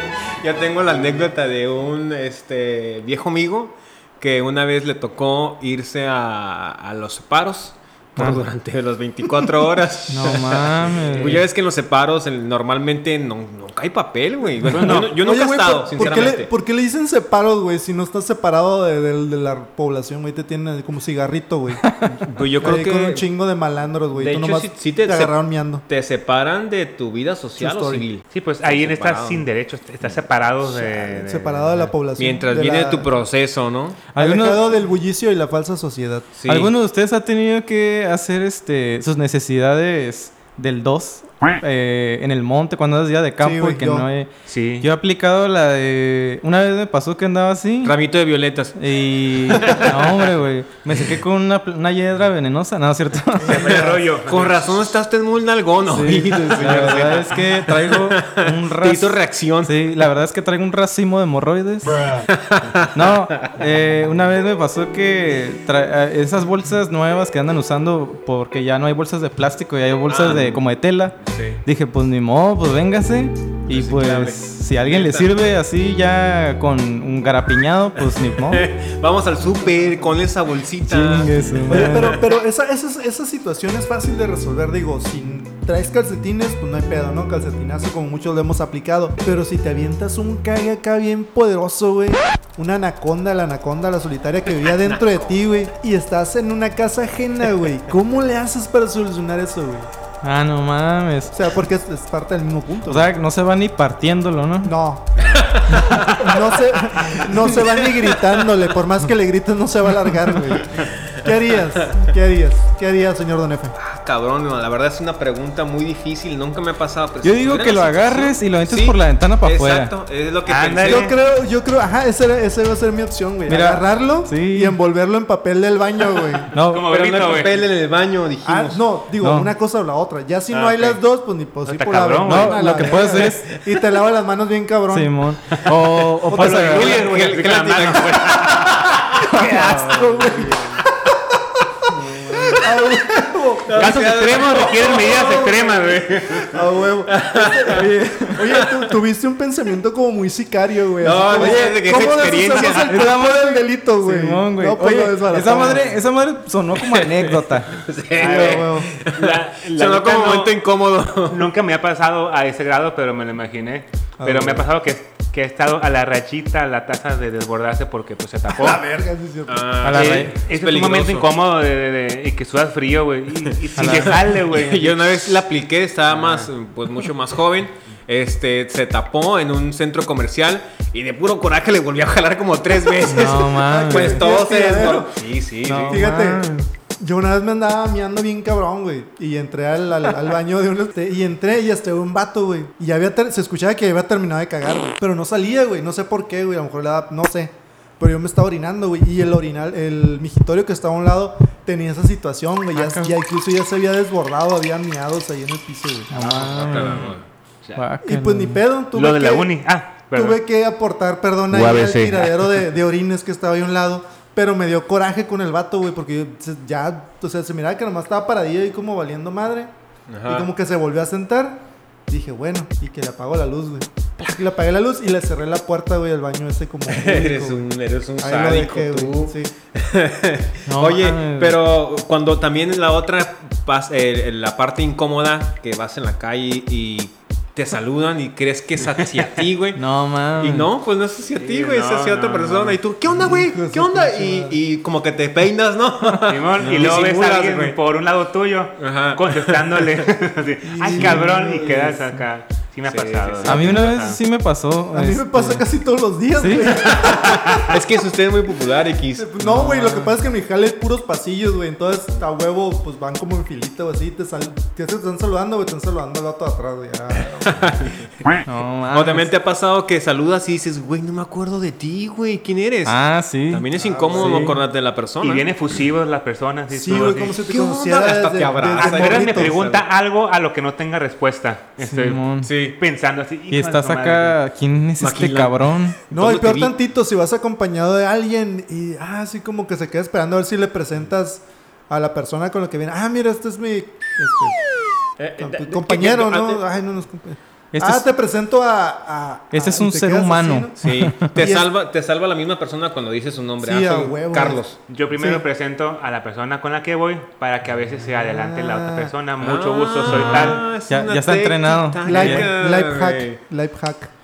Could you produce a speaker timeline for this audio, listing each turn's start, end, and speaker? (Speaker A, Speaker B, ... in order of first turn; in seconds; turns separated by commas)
Speaker A: 0.4-16.5, Speaker B: 8.2-8.4, Speaker B: 10.1-11.5, Speaker C: 14.6-15.2, Speaker D: 14.9-21.9, Speaker B: 21.8-22.1, Speaker A: 22.2-23.2, Speaker D: 22.6-25.9, Speaker A: 24.1-29.4, Speaker D: 27.6-28.1, Speaker C: 28.3-31.9, Speaker D: 30.6-33.1, Speaker A: 32.2-34.1, Speaker B: 34.1-34.7, Speaker D: 34.1-36.3, Speaker A: 36.3-36.7, Speaker B: 36.5-44.3, Speaker D: 43.4-44.1, Speaker C: 44.5-44.9, Speaker B: 44.8-48.0, Speaker A: 47.8-48.8, Speaker B: 48.8-53.7, Speaker A: 49.4-50.0, Speaker C: 53.4-55.0, Speaker D: 53.4-54.0, Speaker A: 53.8-59.8, Speaker B: 55.8-62.0, Speaker A: 62.1-63.5, Speaker B: 62.9-78.7, Speaker A: 70.1-70.6, Speaker A: 71.2-71.6, Speaker A: 73.7-75.3, Speaker A: 78.4-82.2, Speaker B: 80.8-82.2, Speaker D: 81.7-99.9, Speaker B: 100.2-101.3, Speaker D: 101.3-103.1, Speaker B: 102.8-104.7, Speaker D: 104.6-105.1, Speaker C: 105.2-105.5, Speaker A: 105.3-106.2, Speaker B: 105.7-106.0, Speaker D: 106.2-113.8, Speaker A: 107.0-108.4, Speaker A: 110.7-111.3, Speaker A: 111.8-112.1, Speaker A: 113.8-121.1, Speaker B: 117.2-119.9, Speaker C: 120.5-121.1, Speaker D: 120.8-126.5, Speaker B: 123.5-124.8, Speaker B: 126.5-126.9, Speaker C: 126.5-127.7, Speaker A: 126.9-128.8, Speaker D: 128.4-135.1, Speaker B: 129.2-129.5, Speaker A: 130.5-131.0, Speaker C: 131.6-133.0, Speaker B: 132.2-133.4, Speaker A: 133.2-133.8, Speaker B: 134.9-137.0, Speaker C: 136.3-138.8, Speaker D: 136.3-136.9, Speaker A: 136.4-139.8, Speaker D: 138.6-144.1, Speaker B: 139.2-140.1, Speaker A: 141.9-142.8, Speaker A: 143.7-146.5, Speaker C: 143.7-146.5, Speaker D: 146.5-155.9, Speaker A: 147.0-147.9, Speaker B: 147.7-148.5, Speaker A: 148.4-148.9, Speaker A: 151.0-153.0, Speaker B: 151.4-151.7, Speaker B: 152.6-157.8, Speaker A: 156.8-161.4, Speaker C: 158.1-160.6, Speaker D: 158.2-158.9, Speaker C: 161.3-168.8, Speaker D: 164.2-164.7, Speaker D: 168.5-169.8, Speaker A: 169.5-171.3, Speaker B: 169.8-170.3, Speaker C: 169.9-175.3, Speaker B: 173.8-174.3, Speaker A: 173.8-186.1, Speaker C: 176.1-176.5, Speaker B: 183.0-184.3, Speaker D: 183.1-185.2, Speaker B: 185.6-186.6, Speaker D: 185.9-206.7, Speaker B: 202.7-203.1, Speaker B: 206.1-207.1, Speaker A: 206.4-207.2, Speaker C: 206.7-207.8, Speaker B: 207.8-208.6, Speaker D: 208.0-209.5, Speaker C: 208.9-210.4, Speaker D: 210.1-219.7, Speaker C: 211.5-212.6, Speaker A: 220.1-220.5, Speaker D: 220.2-229.5, Speaker A: 226.9-239.8, Speaker B: 230.7-231.6, Speaker C: 238.9-239.3, Speaker B: 239.8-240.7, Speaker A: 240.4-247.8, Speaker C: 241.3-242.8, Speaker D: 243.1-244.6, Speaker C: 246.2-254.2, Speaker B: 246.6-246.9, Speaker A: 248.8-250.0, Speaker D: 250.6-252.1, Speaker A: 250.9-251.6, Speaker A: 252.8-253.8, Speaker B: 253.4-255.6, Speaker D: 254.9-257.8, Speaker B: 256.4-256.9, Speaker C: 257.3-257.6, Speaker A: 257.7-259.3, Speaker D: 259.1-267.9, Speaker B: 259.4-260.2, Speaker A: 267.4-268.0, Speaker B: 268.4-269.3, Speaker A: 268.9-275.5, Speaker B: 272.8-274.6, Speaker D: 273.7-274.6, Speaker C: 275.2-277.4, Speaker D: 276.7-279.6, Speaker A: 276.9-279.8, Speaker C: 278.8-284.4, Speaker B: 281.8-282.5, Speaker A: 282.4-282.8, Speaker B: 283.5-286.0, Speaker A: 285.0-285.6, Speaker A: 286.1-286.7, Speaker D: 286.1-294.6, Speaker A: 295.2-296.6, Speaker D: 295.4-301.7, Speaker B: 297.7-298.1, Speaker B: 299.5-301.4, Speaker A: 300.8-304.8, Speaker D: 303.6-304.6, Speaker C: 304.9-310.6, Speaker D: 305.1-305.4, Speaker D: 308.2-309.1, Speaker A: 309.4-313.4, Speaker B: 310.3-312.5, Speaker D: 312.0-314.1